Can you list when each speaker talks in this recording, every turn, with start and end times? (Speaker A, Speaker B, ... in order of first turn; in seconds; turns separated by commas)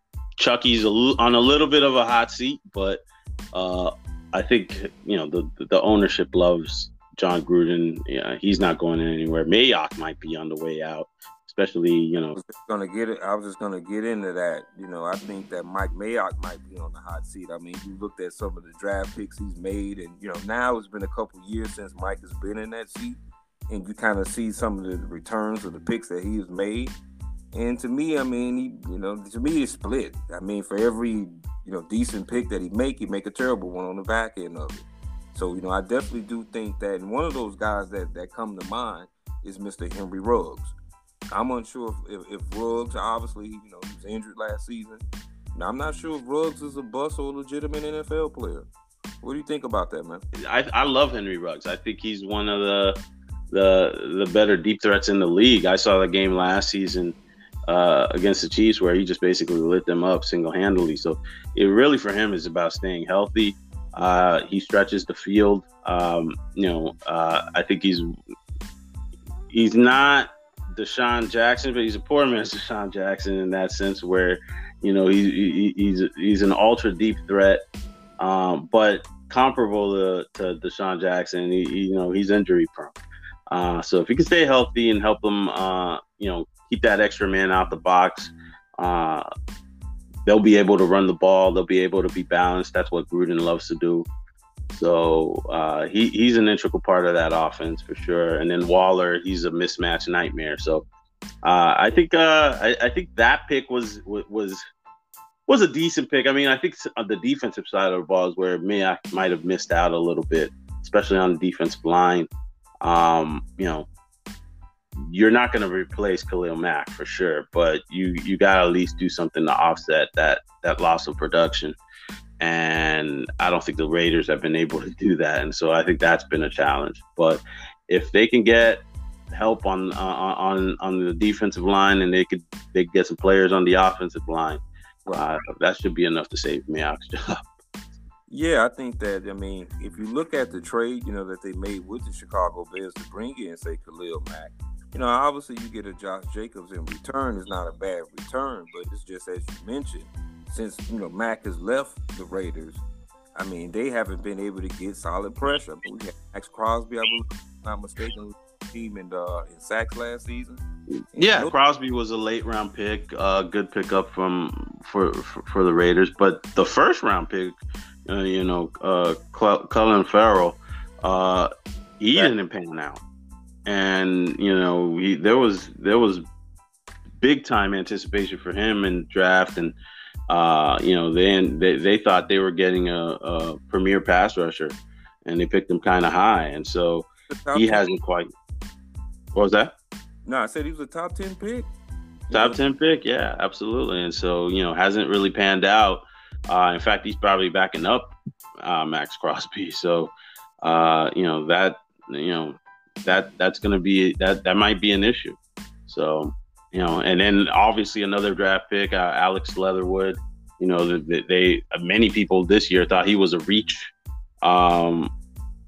Speaker A: 0.4-12.4, Speaker B: 12.4-23.2, Speaker B: 23.7-27.0, Speaker B: 27.5-40.8, Speaker B: 41.3-45.0, Speaker B: 45.5-48.7, Speaker B: 49.2-50.2, Speaker A: 50.4-53.0, Speaker A: 53.5-57.2, Speaker A: 57.7-68.2, Speaker A: 69.5-77.6, Speaker A: 78.2-83.0, Speaker A: 83.5-89.3, Speaker A: 90.3-94.1, Speaker A: 94.7-100.9, Speaker A: 101.4-104.6, Speaker A: 105.5-112.3, Speaker A: 112.8-113.9, Speaker A: 115.0-121.8, Speaker A: 122.4-137.4, Speaker B: 138.3-152.8, Speaker B: 153.3-160.6, Speaker B: 161.2-161.5, Speaker A: 161.2-173.0, Speaker A: 173.7-176.2, Speaker A: 177.2-179.8, Speaker A: 180.3-188.3, Speaker B: 187.3-187.8, Speaker A: 189.3-189.8, Speaker B: 190.2-191.7, Speaker B: 192.3-192.6, Speaker A: 192.3-213.9, Speaker A: 214.4-215.1